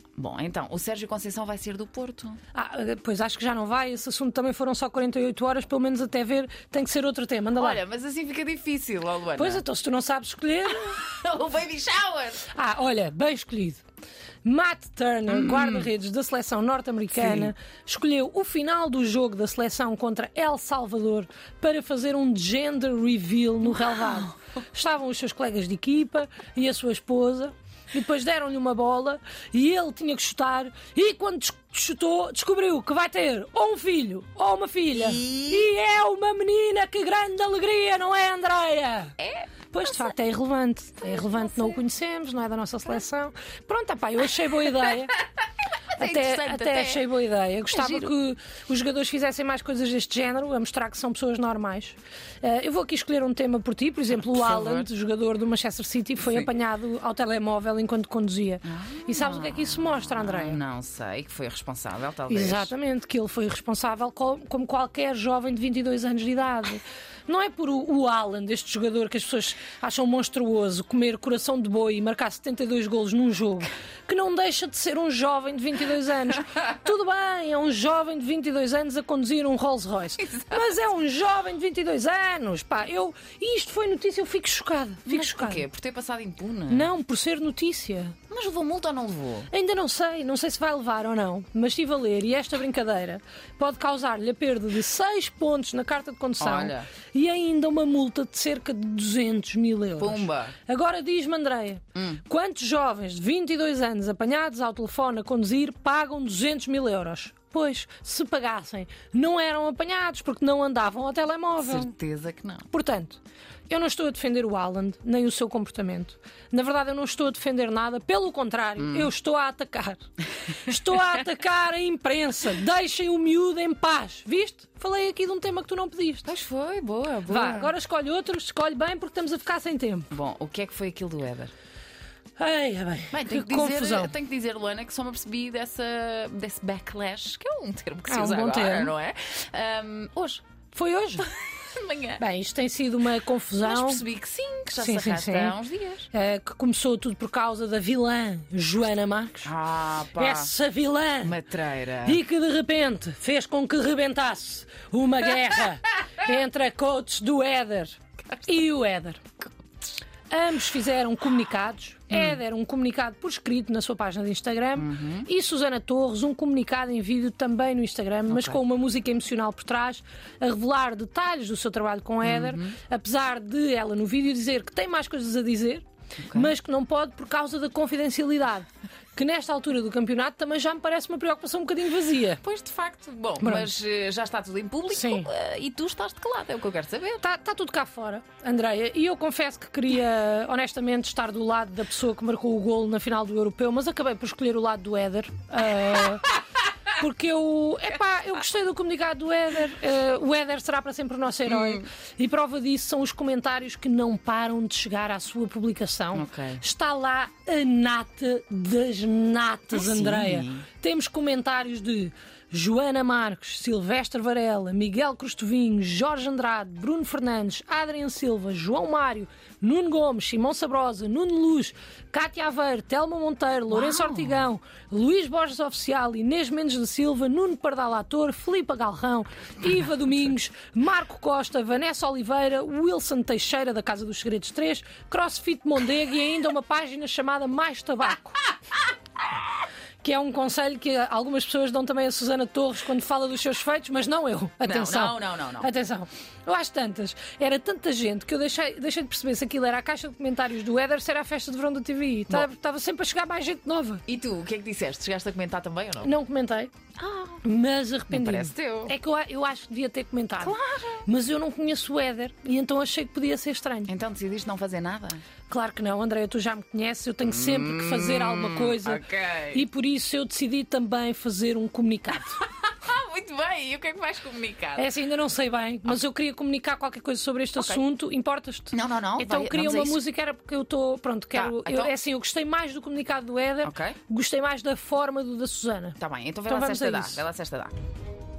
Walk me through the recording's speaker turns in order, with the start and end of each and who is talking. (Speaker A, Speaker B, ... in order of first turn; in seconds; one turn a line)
Speaker A: 0.1-2.4
Speaker B: 2.5-7.8
Speaker A: 7.5-9.6
Speaker B: 9.3-10.9
Speaker A: 10.7-12.5
Speaker B: 12.5-13.8
Speaker B: 14.4-39.1
Speaker A: 15.3-15.8
Speaker A: 23.6-24.3
Speaker A: 34.9-35.7
Speaker A: 39.2-40.1
Speaker B: 39.7-45.1
Speaker A: 41.1-41.8
Speaker A: 46.0-47.0
Speaker B: 46.0-60.6
Speaker A: 47.7-48.1
Speaker A: 54.1-54.9
Speaker A: 56.2-56.5
Speaker A: 58.6-62.7
Speaker B: 62.3-85.6
Speaker A: 85.0-86.9
Speaker B: 86.7-88.2
Speaker A: 88.3-89.5
Speaker B: 89.5-111.9
Speaker A: 96.4-96.9
Speaker A: 100.0-100.5
Speaker A: 101.9-102.2
Speaker A: 111.6-112.7
Speaker B: 112.7-120.0
Speaker A: 118.8-119.1
Speaker B: 120.6-126.3
Speaker A: 126.2-127.7
Speaker B: 127.3-130.1
Speaker A: 130.1-131.5
Speaker B: 132.4-134.1
Speaker A: 133.1-140.4
Speaker B: 138.1-138.9
Speaker B: 140.7-141.3
Speaker A: 141.2-142.2
Speaker B: 142.2-144.0
Speaker A: 143.6-146.1
Speaker B: 144.7-149.5
Speaker A: 149.4-150.5
Speaker B: 150.2-151.4
Speaker A: 151.2-152.2
Speaker B: 152.0-159.2
Speaker B: 160.3-182.4
Speaker A: 164.8-165.3
Speaker A: 168.3-168.6
Speaker A: 172.2-172.7
Speaker A: 176.2-176.5
Speaker A: 182.4-187.2
Speaker B: 183.4-183.7
Speaker B: 184.9-185.3
Speaker B: 187.2-196.3
Speaker B: 196.9-238.5
Speaker A: 201.5-201.8
Speaker A: 206.1-206.6
Speaker A: 209.7-210.7
Speaker A: 223.7-224.5
Speaker B: 240.0-254.0
Speaker A: 244.6-245.7
Speaker A: 254.1-256.1
Speaker B: 256.0-256.7
Speaker A: 257.0-257.4
Speaker B: 257.4-260.5
Speaker A: 258.1-258.9
Speaker A: 260.4-261.0
Speaker B: 261.1-263.9
Speaker A: 263.9-265.2
Speaker B: 265.5-272.4
Speaker A: 267.2-269.6
Speaker A: 272.4-274.9
Speaker B: 274.8-287.2
Speaker A: 277.6-277.8
Speaker A: 278.7-280.0
Speaker A: 281.3-281.9
Speaker A: 283.6-284.0
Speaker A: 286.0-287.7